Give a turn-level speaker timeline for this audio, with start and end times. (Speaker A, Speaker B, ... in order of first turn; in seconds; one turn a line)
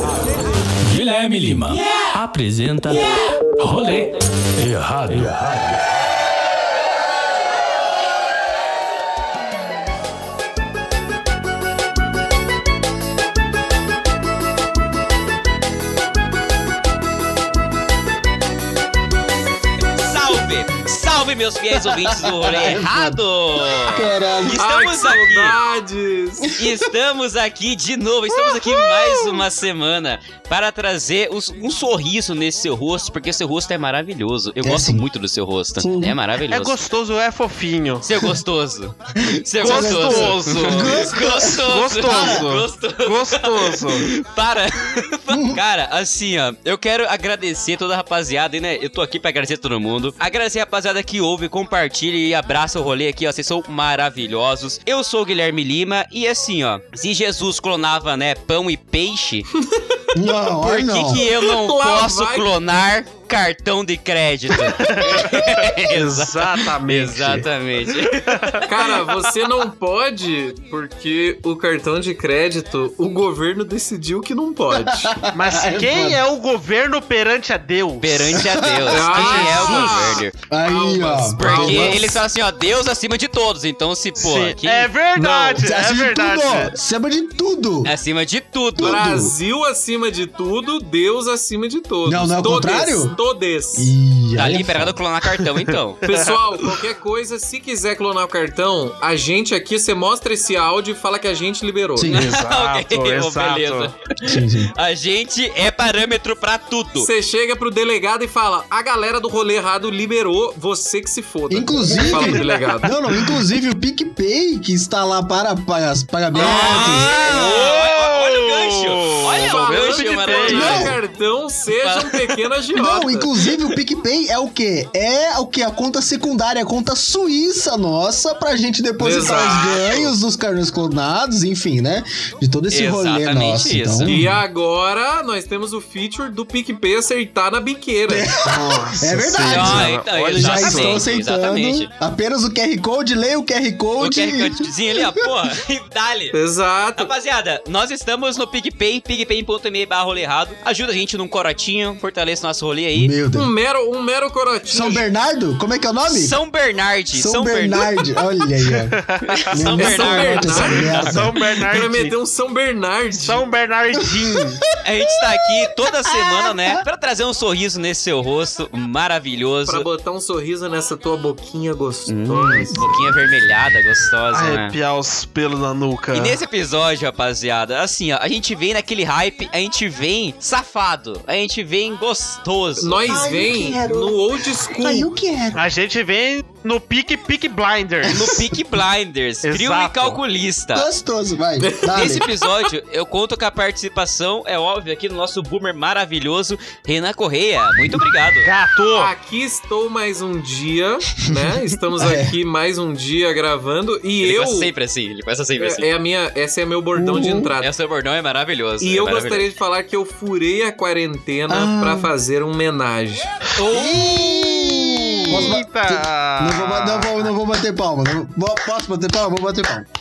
Speaker A: 0.8-6.0
Speaker B: 20.0-25.6
Speaker C: 21.7-24.6
Speaker D: 24.6-26.5
Speaker C: 26.5-26.8
Speaker B: 26.6-36.8
Speaker E: 28.3-29.4
Speaker C: 34.6-35.1
Speaker C: 35.8-36.2
Speaker E: 36.5-38.1
Speaker B: 38.0-59.5
Speaker C: 39.2-42.5
Speaker E: 39.6-41.1
Speaker E: 41.6-44.1
Speaker C: 45.3-45.6
Speaker D: 59.6-60.1
Speaker C: 60.1-61.3
Speaker B: 60.6-68.6
Speaker D: 61.2-62.5
Speaker E: 64.6-68.7
Speaker D: 68.7-75.1
Speaker C: 74.7-76.2
Speaker E: 75.3-78.4
Speaker B: 78.0-80.3
Speaker C: 78.3-79.0
Speaker D: 78.9-82.2
Speaker E: 79.0-80.2
Speaker C: 80.5-82.2
Speaker B: 81.4-84.9
Speaker E: 84.2-86.8
Speaker D: 85.2-85.6
Speaker C: 85.6-87.9
Speaker B: 87.8-89.0
Speaker C: 88.8-89.3
Speaker D: 88.8-94.0
Speaker C: 92.1-93.2
Speaker C: 93.7-95.0
Speaker B: 94.4-96.0
Speaker E: 95.7-96.4
Speaker D: 96.1-102.1
Speaker C: 102.0-102.4
Speaker B: 102.1-107.1
Speaker E: 102.1-103.9
Speaker C: 104.2-104.7
Speaker D: 107.0-113.0
Speaker C: 111.5-117.2
Speaker E: 111.9-113.4
Speaker B: 116.3-121.0
Speaker E: 116.3-120.9
Speaker D: 119.3-123.5
Speaker C: 120.5-121.0
Speaker B: 121.7-122.4
Speaker C: 122.7-134.4
Speaker D: 129.0-130.2
Speaker B: 132.7-134.3
Speaker D: 134.0-138.3
Speaker C: 138.1-145.3
Speaker E: 138.4-141.1
Speaker B: 139.4-141.9
Speaker B: 144.0-146.4
Speaker D: 146.3-147.1
Speaker B: 147.0-153.2
Speaker C: 152.9-153.5
Speaker D: 153.3-155.0
Speaker C: 154.7-156.4
Speaker B: 156.1-158.0
Speaker C: 157.1-159.0
Speaker E: 158.7-159.5
Speaker B: 159.3-161.2
Speaker C: 159.5-161.3
Speaker D: 159.7-161.1
Speaker E: 161.0-162.1
Speaker D: 161.7-163.4
Speaker E: 163.2-164.6
Speaker C: 164.0-164.4
Speaker B: 164.8-169.9
Speaker C: 165.1-166.8
Speaker D: 169.7-173.0
Speaker B: 172.1-174.7
Speaker E: 174.3-176.4
Speaker B: 176.1-183.0
Speaker D: 182.8-185.1
Speaker C: 183.0-185.6
Speaker E: 185.5-188.3
Speaker C: 188.1-188.5
Speaker B: 188.1-190.9
Speaker E: 189.4-190.2
Speaker C: 190.7-192.2
Speaker D: 191.6-192.7
Speaker B: 191.9-198.5
Speaker E: 198.4-199.1
Speaker D: 198.9-204.7
Speaker C: 201.3-202.3
Speaker B: 204.2-205.9
Speaker D: 205.6-207.7
Speaker C: 206.9-207.5
Speaker B: 207.6-209.5
Speaker D: 208.8-213.3
Speaker C: 211.5-212.1
Speaker E: 213.6-217.3
Speaker C: 213.7-219.9